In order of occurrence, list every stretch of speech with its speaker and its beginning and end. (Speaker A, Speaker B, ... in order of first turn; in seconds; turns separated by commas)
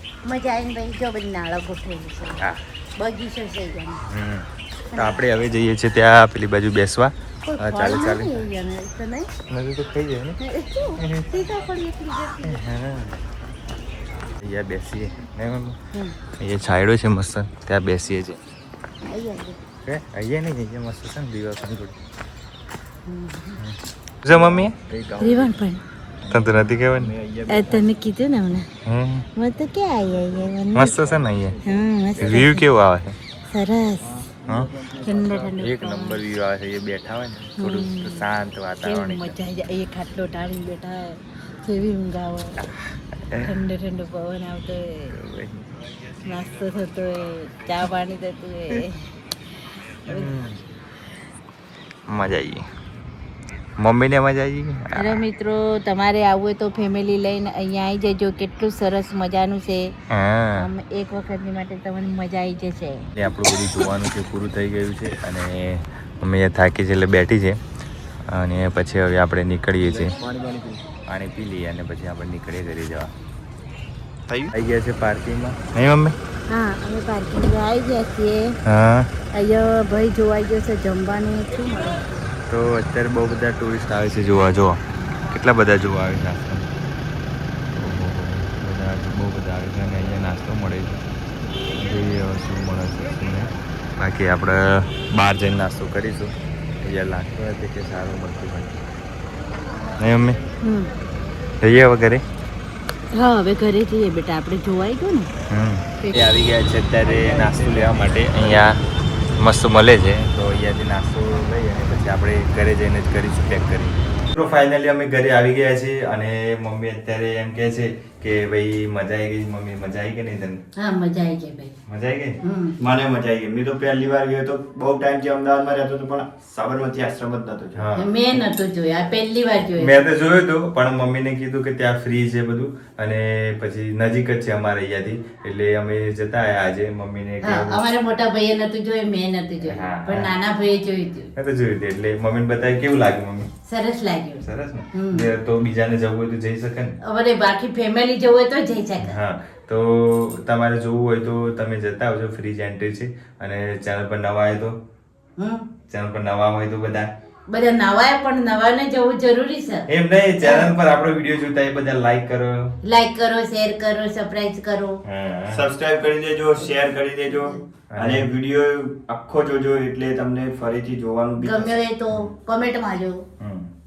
Speaker A: 0.2-2.4, Speaker A: 3.0-4.0, Speaker B: 4.1-8.3, Speaker A: 4.9-5.3, Speaker A: 7.4-9.3, Speaker B: 9.5-10.4, Speaker A: 10.4-12.6, Speaker B: 11.0-11.3, Speaker B: 12.4-13.2, Speaker B: 14.4-15.8, Speaker B: 16.4-18.4, Speaker A: 19.0-19.6, Speaker B: 19.8-21.9, Speaker A: 23.1-23.6, Speaker B: 23.6-24.8, Speaker C: 24.6-25.4, Speaker A: 25.1-25.8, Speaker B: 26.3-27.2, Speaker C: 26.6-27.6, Speaker A: 27.4-28.7, Speaker B: 28.8-29.2, Speaker A: 29.4-31.0, Speaker B: 30.7-31.6, Speaker A: 31.6-32.6, Speaker B: 32.2-33.1, Speaker A: 33.5-34.2, Speaker B: 34.5-34.7, Speaker A: 34.9-36.2, Speaker B: 35.6-39.4, Speaker A: 37.6-38.3, Speaker A: 38.8-42.6, Speaker B: 42.6-43.5, Speaker A: 43.3-45.1, Speaker B: 45.1-45.7, Speaker A: 46.2-49.0, Speaker A: 50.0-50.3, Speaker B: 50.0-50.6, Speaker B: 52.1-52.6, Speaker B: 53.8-55.2, Speaker A: 55.0-59.9, Speaker B: 60.1-60.7, Speaker A: 60.5-63.1, Speaker B: 63.1-67.6, Speaker B: 68.3-70.2, Speaker C: 69.8-70.8, Speaker B: 71.1-73.1, Speaker B: 74.5-76.2, Speaker A: 76.5-78.5, Speaker B: 78.7-79.1, Speaker A: 79.3-82.0, Speaker B: 82.5-84.8, Speaker B: 85.3-86.7, Speaker B: 87.7-91.0, Speaker B: 91.7-98.8, Speaker B: 100.0-100.4, Speaker A: 100.6-100.9, Speaker B: 101.6-102.2, Speaker A: 103.1-105.3, Speaker B: 105.5-108.8, Speaker A: 106.0-106.3, Speaker C: 107.0-108.8, Speaker B: 109.4-120.6, Speaker A: 120.8-121.7, Speaker B: 121.8-122.4, Speaker A: 122.4-122.8, Speaker C: 122.8-127.9, Speaker B: 127.8-128.4, Speaker A: 128.0-130.0, Speaker B: 129.7-137.9, Speaker A: 137.4-141.3, Speaker B: 139.7-140.3, Speaker B: 141.3-143.5, Speaker A: 143.6-145.3, Speaker B: 144.4-146.9, Speaker A: 147.0-149.2, Speaker B: 149.0-154.7, Speaker A: 155.4-155.7, Speaker B: 155.9-157.1, Speaker A: 157.5-159.9, Speaker B: 159.9-162.6, Speaker A: 160.4-160.7, Speaker A: 162.8-165.0, Speaker B: 165.0-165.6, Speaker C: 165.5-171.9, Speaker B: 167.9-168.3, Speaker A: 171.4-173.2, Speaker B: 173.4-173.7